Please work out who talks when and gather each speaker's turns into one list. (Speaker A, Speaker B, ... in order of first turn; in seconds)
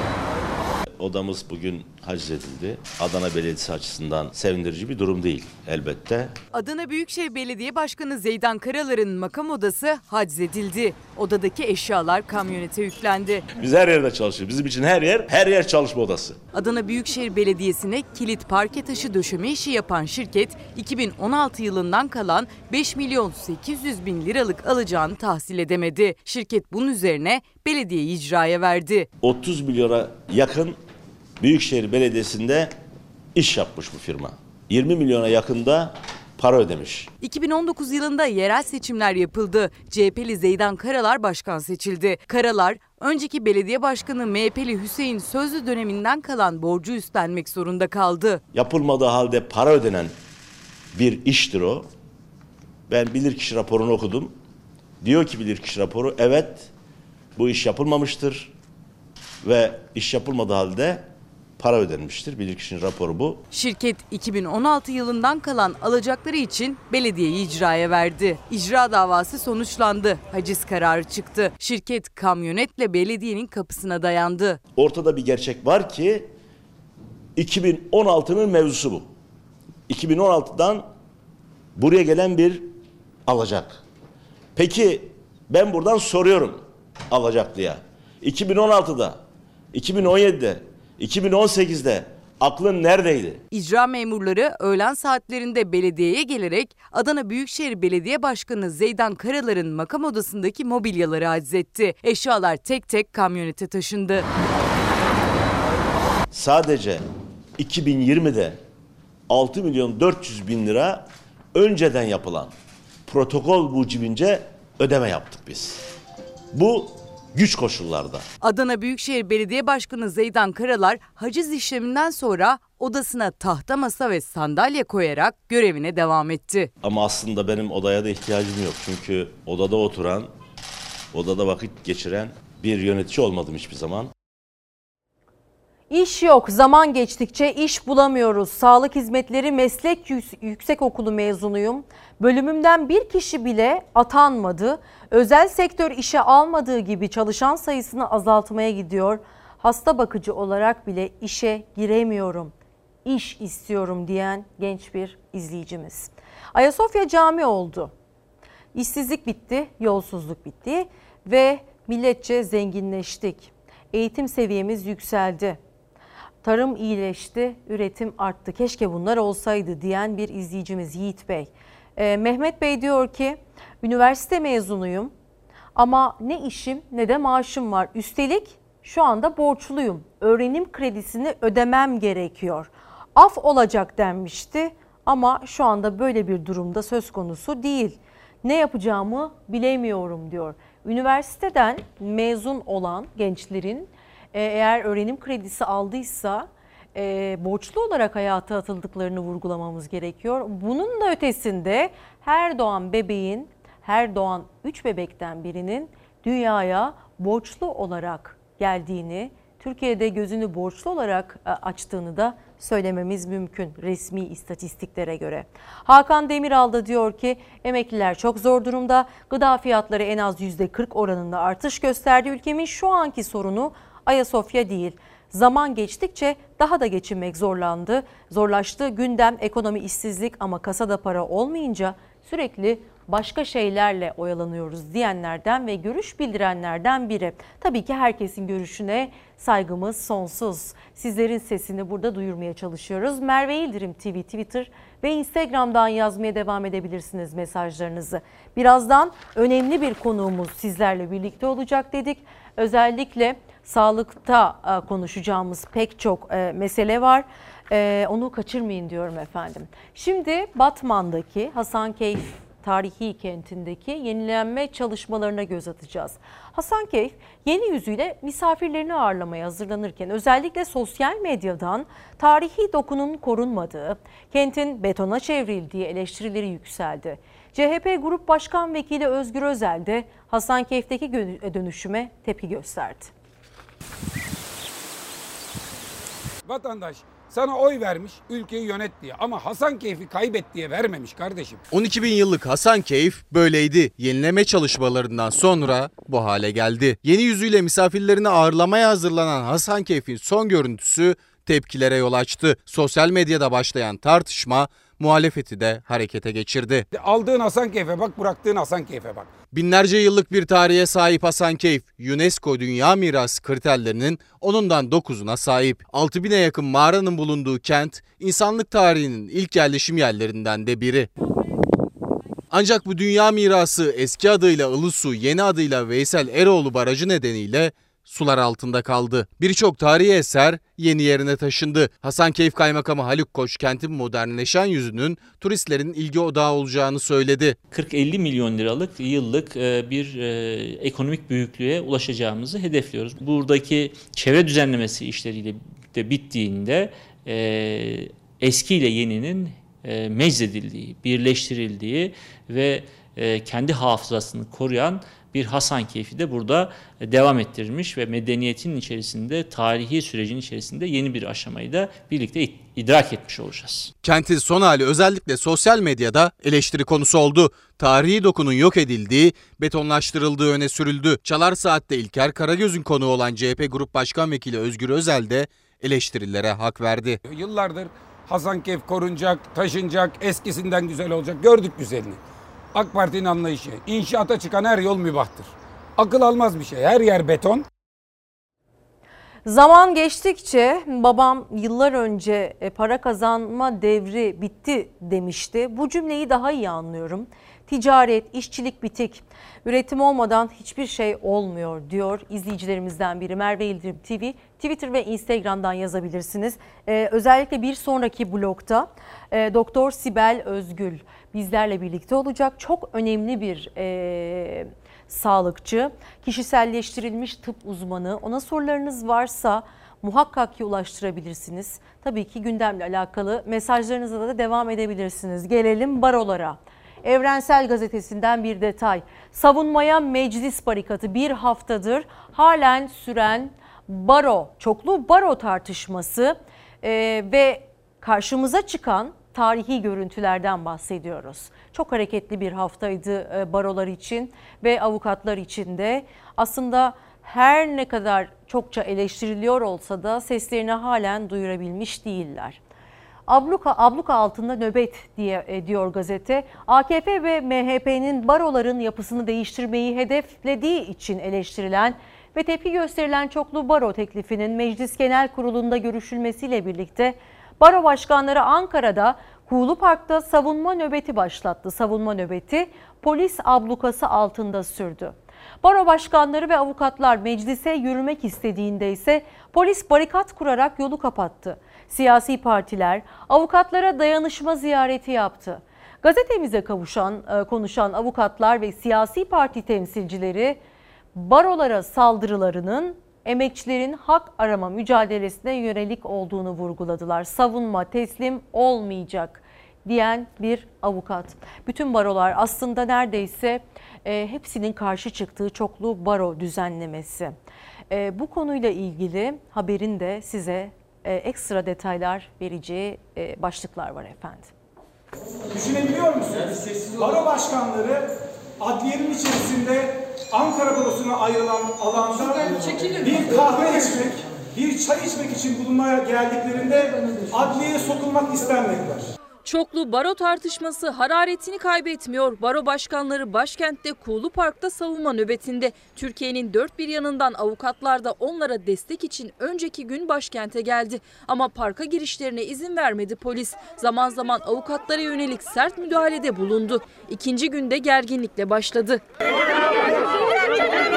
Speaker A: 1.0-6.3, 13.6-16.4, 29.2-30.8, 31.4-32.7, 33.3-37.1, 48.5-50.1, 50.9-51.9, 52.9-54.4, 55.0-56.7, 57.4-58.5, 59.4-63.4, 74.8-76.3, 77.3-79.1, 79.9-80.9, 81.8-82.7, 83.3-83.8, 84.5-89.2, 89.7-93.4, 106.3-107.0, 107.6-108.6, 109.3-112.5, 113.1-115.8, 116.5-118.2, 126.8-130.3, 131.1-134.1
Speaker B: 6.5-13.4, 16.6-29.0, 37.2-48.4, 63.5-74.6, 93.5-104.2, 118.4-126.7
Speaker C: 135.9-152.5, 153.0-157.9, 158.7-165.6, 166.4-175.1, 175.7-283.1, 389.4-452.6, 453.3-490.6, 491.1-507.4, 507.9-514.5
Speaker D: 286.4-291.6, 306.9-309.3, 377.2-382.2, 382.7-387.6
Speaker E: 291.7-306.9, 309.5-321.1, 322.5-337.6, 364.0-377.2
Speaker F: 337.7-363.9
Speaker G: 515.5-518.0, 518.6-522.4, 523.0-529.0
Speaker H: 529.4-549.0